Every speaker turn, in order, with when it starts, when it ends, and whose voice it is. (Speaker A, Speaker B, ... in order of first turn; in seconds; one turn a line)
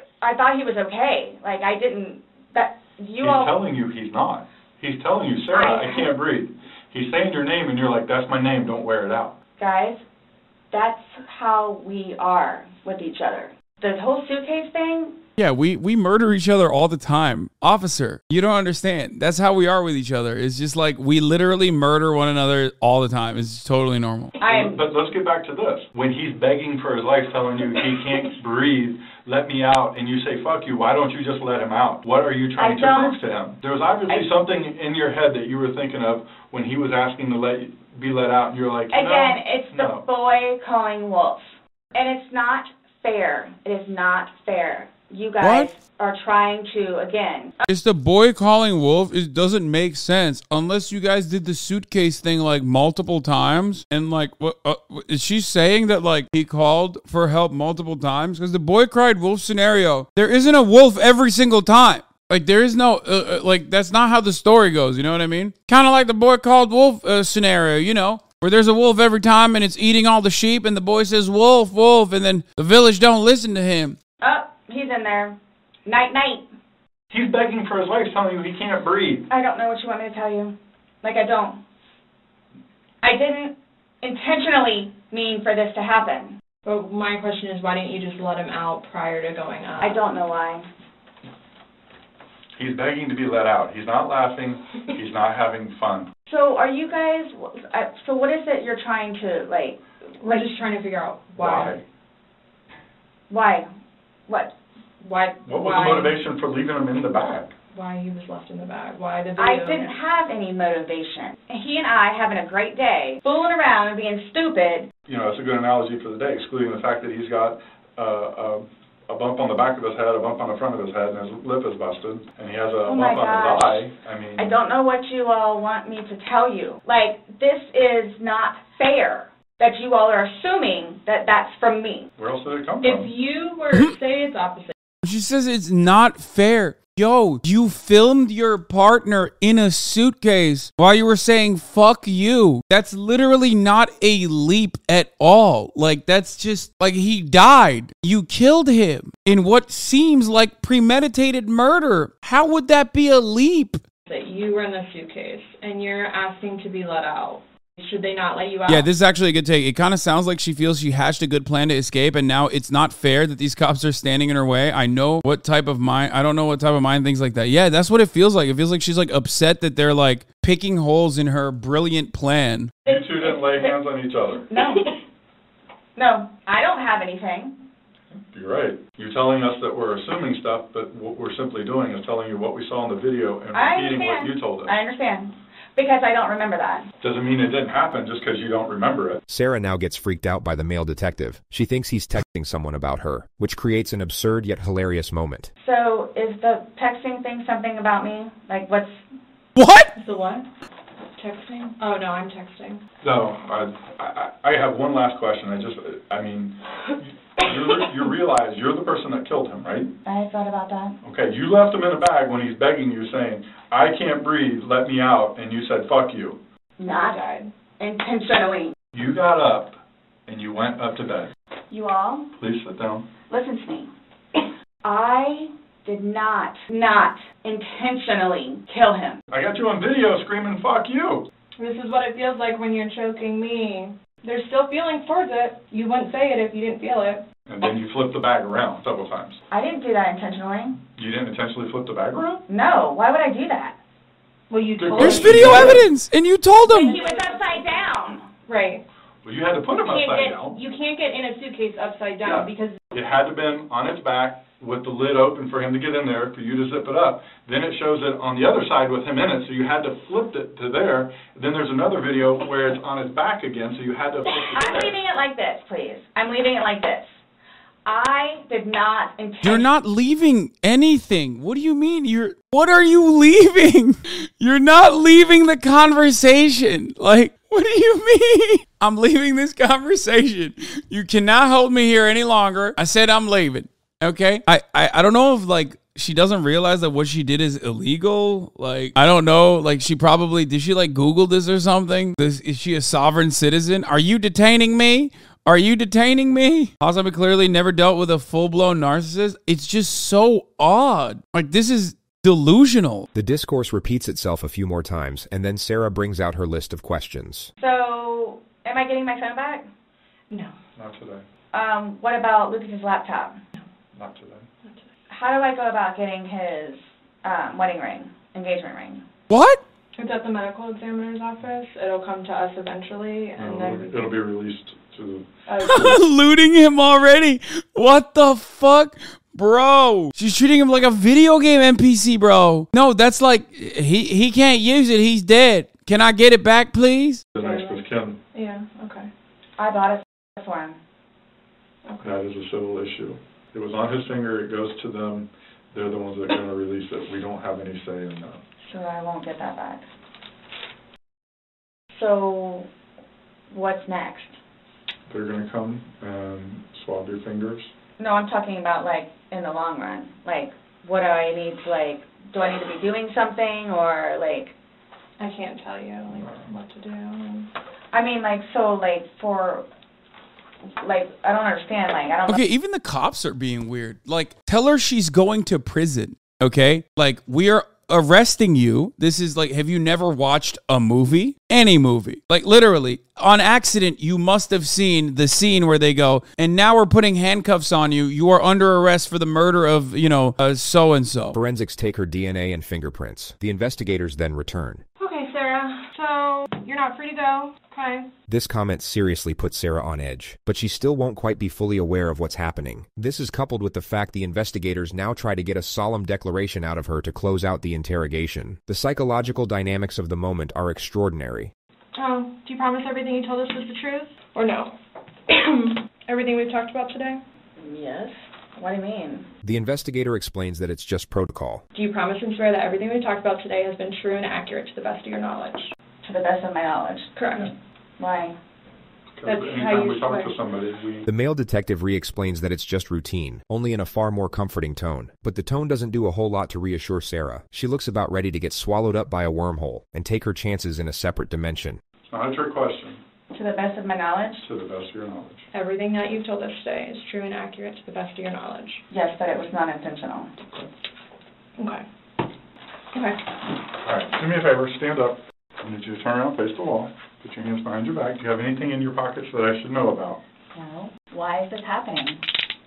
Speaker A: 0.2-3.5
Speaker B: 3.2-9.3
Speaker A: 5.5-6.1
Speaker A: 9.6-10.0
Speaker A: 10.7-15.2
Speaker C: 15.4-24.4
Speaker A: 24.4-24.9
Speaker B: 24.5-40.0
Speaker A: 32.6-33.2
Speaker A: 38.9-47.6
Speaker C: 45.4-45.7
Speaker C: 47.7-74.0
Speaker A: 74.2-76.5
Speaker B: 77.1-79.2
Speaker A: 79.3-81.6
Speaker A: 83.0-86.4
Speaker D: 86.7-90.0
Speaker A: 89.8-90.7
Speaker B: 92.6-96.1
Speaker A: 96.3-99.8
Speaker D: 100.2-101.8
Speaker B: 101.3-101.8
Speaker A: 103.3-103.7
Speaker D: 105.0-106.2
Speaker B: 105.5-107.5
Speaker D: 107.7-109.9
Speaker A: 109.4-114.9
Speaker B: 115.1-124.6
Speaker A: 122.8-123.8
Speaker A: 124.4-132.1
Speaker B: 132.2-133.1
Speaker D: 132.8-134.8
Speaker C: 135.0-153.8
Speaker D: 154.1-158.9
Speaker C: 158.7-172.8
Speaker B: 172.8-174.5
Speaker A: 172.9-173.8
Speaker A: 174.5-174.9
Speaker A: 176.0-177.6
Speaker B: 178.1-184.7
Speaker A: 183.5-186.9
Speaker B: 187.0-189.2
Speaker E: 189.3-195.5
Speaker A: 195.6-199.0
Speaker C: 199.6-199.9
Speaker D: 200.0-200.5
Speaker D: 201.2-202.8
Speaker B: 203.0-209.9
Speaker A: 210.1-211.0
Speaker B: 211.0-216.4
Speaker A: 216.8-217.3
Speaker D: 216.8-217.5
Speaker A: 217.8-218.8
Speaker B: 218.9-221.3
Speaker A: 221.7-222.3
Speaker B: 222.4-223.1
Speaker A: 223.3-223.9
Speaker A: 224.8-229.2
Speaker B: 229.3-231.2
Speaker D: 231.6-237.2
Speaker B: 237.5-239.4
Speaker A: 239.5-240.8
Speaker B: 241.0-242.4
Speaker A: 242.5-243.8
Speaker D: 244.5-245.8
Speaker B: 244.8-245.9
Speaker C: 244.9-246.9
Speaker D: 246.7-247.9
Speaker A: 246.8-248.2
Speaker D: 248.5-248.8
Speaker B: 249.2-250.6
Speaker D: 249.7-252.8
Speaker B: 252.2-265.0
Speaker A: 264.5-267.1
Speaker A: 267.9-269.7
Speaker C: 269.4-303.1
Speaker E: 303.1-307.5
Speaker A: 307.6-309.7
Speaker B: 310.8-311.2
Speaker A: 311.5-313.4
Speaker B: 313.9-314.5
Speaker A: 315.1-319.0
Speaker C: 319.3-319.6
Speaker D: 319.9-324.0
Speaker B: 323.4-325.3
Speaker A: 325.5-326.0
Speaker C: 325.6-337.2
Speaker B: 337.4-338.2
Speaker D: 337.4-339.1
Speaker A: 339.6-340.8
Speaker D: 341.9-342.2
Speaker B: 342.0-348.4
Speaker A: 348.6-349.9
Speaker A: 351.9-352.7
Speaker A: 353.5-354.4
Speaker B: 355.1-357.7
Speaker A: 358.0-364.5
Speaker D: 365.2-367.5
Speaker B: 366.2-366.4
Speaker A: 367.9-369.6
Speaker A: 370.8-372.4
Speaker C: 372.3-391.4
Speaker E: 391.3-394.8
Speaker D: 395.0-398.1
Speaker E: 398.3-411.5
Speaker D: 412.0-414.7
Speaker D: 415.3-417.2
Speaker A: 417.6-419.3
Speaker E: 419.4-421.6
Speaker D: 421.7-425.7
Speaker A: 426.0-427.1
Speaker D: 427.2-427.5
Speaker A: 428.0-428.4
Speaker B: 429.2-431.1
Speaker D: 429.2-430.3
Speaker E: 431.1-441.8
Speaker B: 442.1-443.0
Speaker A: 443.3-444.5
Speaker B: 444.4-445.4
Speaker D: 445.5-448.8
Speaker A: 448.9-450.3
Speaker D: 451.6-451.9
Speaker D: 452.9-453.2
Speaker B: 453.8-460.2
Speaker A: 460.5-462.2